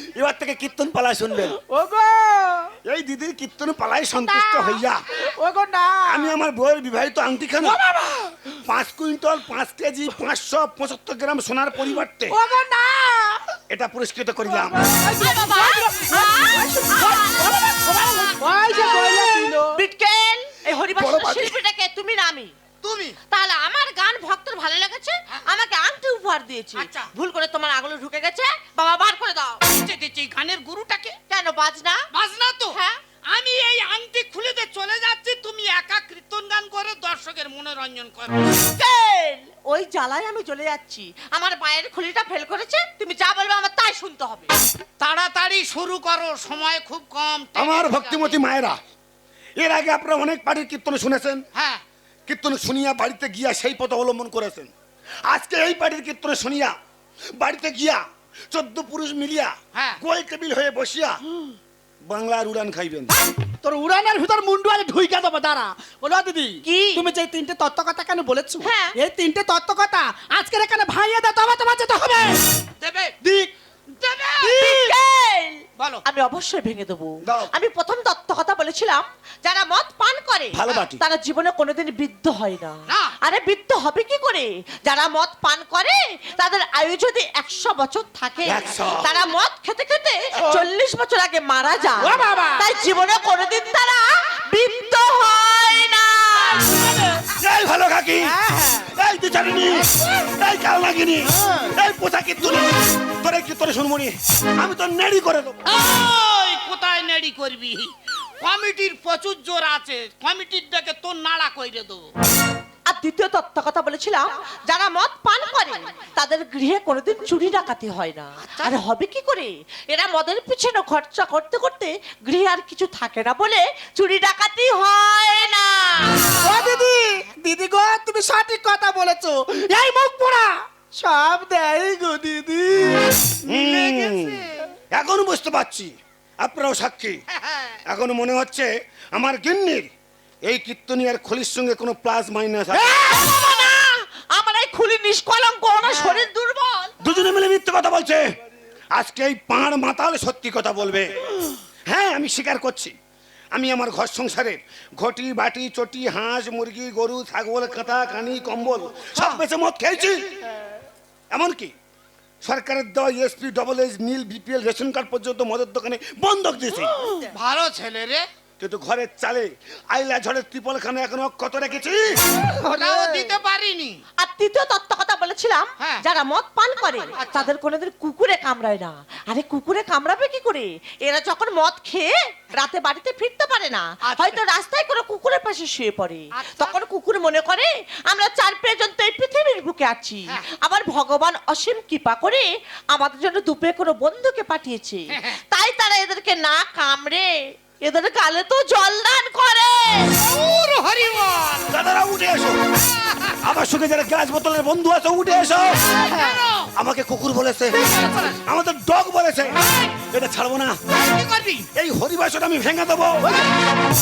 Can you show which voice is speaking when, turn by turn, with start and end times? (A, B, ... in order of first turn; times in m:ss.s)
0:00.2-0:01.6 A
0:01.4-0:02.8 B
0:02.8-0:05.2 A
0:04.3-0:06.3 B
0:06.1-0:07.8 A
0:07.6-0:08.6 B
0:08.6-0:12.4 A
0:12.3-0:13.5 B
0:13.7-0:14.8 A
0:14.5-0:19.8 B
0:15.2-0:17.5 C
0:18.8-0:22.5 C
0:21.0-0:21.6 A
0:22.8-0:23.2 D
0:23.3-0:29.6 C
0:26.8-0:27.1 D
0:29.6-0:31.2 D
0:31.3-0:32.1 C
0:32.1-0:38.4 D
0:32.7-0:33.0 C
0:38.6-0:44.5 C
0:45.0-0:48.4 D
0:47.6-0:48.8 A
0:49.6-0:51.4 A
0:51.6-0:51.8 D
0:52.3-0:54.7 A
0:55.3-0:56.7 A
0:57.4-1:01.2 A
0:59.8-1:00.0 D
1:02.0-1:03.2 A
1:03.5-1:12.4 B
1:06.6-1:07.1 C
1:08.6-1:09.0 C
1:12.8-1:13.2 D
1:13.2-1:13.5 B
1:13.9-1:14.5 D
1:14.4-1:14.9 B
1:14.4-1:36.9 C
1:15.8-1:16.0 D
1:17.2-1:17.5 A
1:20.5-1:21.0 A
1:22.9-1:23.2 D
1:28.4-1:29.1 A
1:32.0-1:32.7 B
1:36.6-1:37.2 B
1:37.4-1:38.4 A
1:38.2-1:38.9 B
1:38.9-1:45.6 A
1:41.2-1:41.8 B
1:45.7-1:52.1 D
1:52.9-2:06.6 C
1:58.4-1:58.7 D
2:06.4-2:13.3 B
2:13.4-2:14.6 D
2:13.5-2:17.2 A
2:17.3-2:17.8 D
2:17.9-2:19.9 A
2:20.4-2:23.1 A
2:22.7-2:27.1 C
2:27.0-2:28.3 A
2:28.9-2:31.2 A
2:31.9-2:32.9 A
2:33.5-2:40.3 A
2:39.1-2:39.4 D
2:41.3-2:41.7 A
2:42.4-2:47.0 A
2:47.3-2:48.3 D
2:48.6-2:52.2 A
2:52.4-2:53.3 B
2:52.6-2:54.0 D
2:54.2-3:20.2 C
2:57.2-2:57.5 D
3:04.0-3:04.4 D
3:06.4-3:06.8 D
3:15.1-3:15.4 D
3:20.2-3:21.8 D
3:21.7-3:22.6 A
3:22.9-3:23.4 D
3:23.4-3:25.7 A
3:26.0-3:26.4 B
3:26.0-3:26.7 D
3:26.8-3:30.8 A
3:27.9-3:28.4 D
3:30.9-3:31.7 D
3:31.7-3:33.3 A
3:33.2-3:33.5 B